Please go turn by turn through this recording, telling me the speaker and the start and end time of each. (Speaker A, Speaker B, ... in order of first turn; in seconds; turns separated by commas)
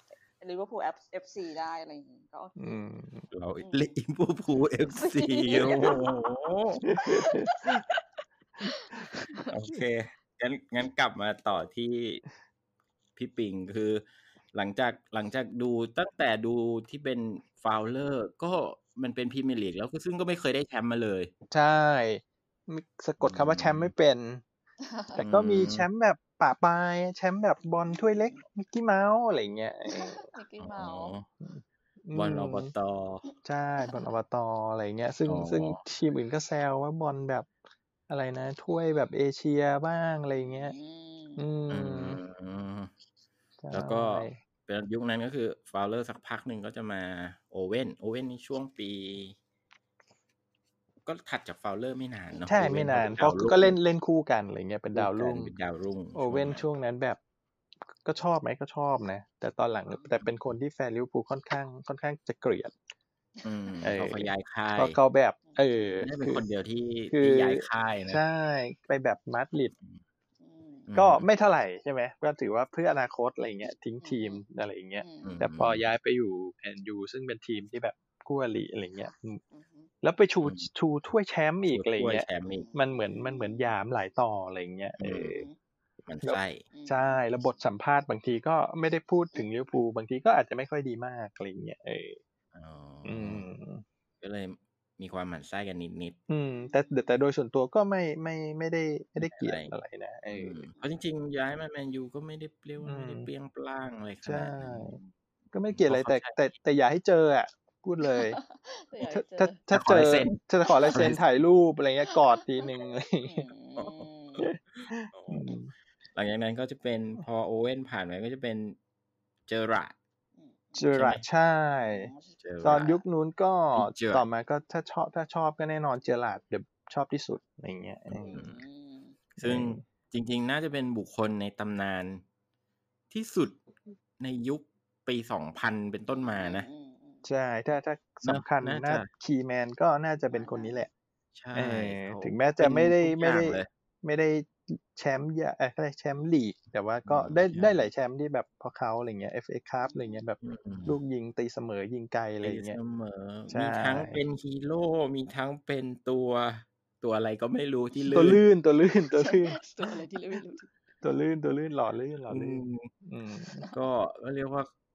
Speaker A: 0.4-2.8, Speaker B: 2.6-3.3, Speaker C: 3.3-6.9, Speaker A: 3.6-3.9, Speaker A: 4.9-6.4, Speaker A: 7.0-8.0, Speaker B: 7.0-7.5, Speaker A: 8.6-9.5, Speaker C: 9.5-12.2, Speaker C: 13.2-21.3, Speaker B: 21.5-24.4, Speaker C: 23.2-23.9, Speaker A: 24.8-25.2, Speaker B: 25.1-30.3, Speaker C: 25.2-25.9, Speaker A: 27.8-28.4, Speaker A: 29.9-31.1, Speaker C: 30.6-31.3, Speaker B: 31.4-32.7, Speaker C: 32.1-33.2, Speaker A: 33.3-34.1, Speaker B: 33.4-37.5, Speaker C: 35.2-35.8, Speaker B: 38.1-40.7, Speaker A: 40.4-41.4, Speaker B: 41.4-42.2, Speaker C: 41.7-42.9, Speaker B: 43.6-44.4, Speaker C: 43.7-49.4, Speaker C: 51.0-53.8, Speaker B: 52.5-55.5, Speaker C: 54.9-56.7, Speaker B: 56.1-57.2, Speaker B: 58.0-62.7, Speaker A: 59.9-60.1, Speaker A: 63.4-63.9, Speaker C: 63.4-65.0, Speaker B: 63.8-66.4, Speaker C: 66.0-68.2, Speaker B: 67.1-69.7, Speaker A: 70.4-70.9, Speaker C: 70.9-71.2, Speaker B: 71.0-79.4, Speaker A: 74.0-74.4, Speaker A: 75.0-75.4, Speaker C: 75.2-75.8, Speaker A: 79.0-79.9, Speaker B: 80.0-85.4, Speaker C: 80.4-80.7, Speaker C: 81.7-82.7, Speaker A: 82.5-83.7, Speaker C: 85.0-85.4, Speaker A: 85.2-85.5, Speaker C: 86.0-86.6, Speaker B: 86.2-92.2, Speaker A: 86.7-87.2, Speaker C: 92.5-93.5, Speaker B: 93.0-93.8, Speaker C: 94.2-96.2, Speaker B: 96.3-100.6, Speaker A: 96.6-97.0, Speaker C: 99.2-99.7, Speaker C: 100.3-105.1, Speaker B: 102.8-103.3, Speaker B: 104.2-105.0, Speaker B: 105.5-108.4, Speaker C: 105.7-106.5, Speaker A: 108.0-109.6, Speaker B: 109.0-113.5, Speaker C: 109.7-111.2, Speaker A: 113.2-114.5, Speaker C: 113.8-115.6, Speaker B: 114.4-115.7, Speaker C: 116.1-118.8, Speaker C: 119.5-120.0, Speaker A: 120.4-120.9, Speaker B: 120.8-122.1, Speaker C: 120.9-121.2, Speaker A: 121.9-122.9, Speaker C: 122.4-123.0, Speaker B: 122.6-128.4, Speaker C: 123.7-124.2, Speaker C: 128.1-128.6, Speaker A: 128.2-129.2, Speaker C: 129.4-132.2, Speaker B: 129.4-129.8, Speaker C: 133.1-133.6, Speaker C: 134.2-136.7, Speaker A: 136.3-137.2, Speaker B: 137.2-140.9, Speaker C: 138.2-139.1, Speaker A: 140.3-140.9, Speaker C: 141.3-143.7, Speaker B: 141.5-152.8, Speaker C: 147.0-147.9, Speaker A: 149.8-150.2, Speaker C: 150.4-151.0, Speaker C: 152.4-158.4, Speaker B: 153.5-154.2, Speaker B: 158.1-160.0, Speaker A: 159.1-161.1, Speaker B: 161.0-163.6, Speaker C: 162.3-162.9, Speaker A: 163.5-163.8, Speaker C: 163.7-164.7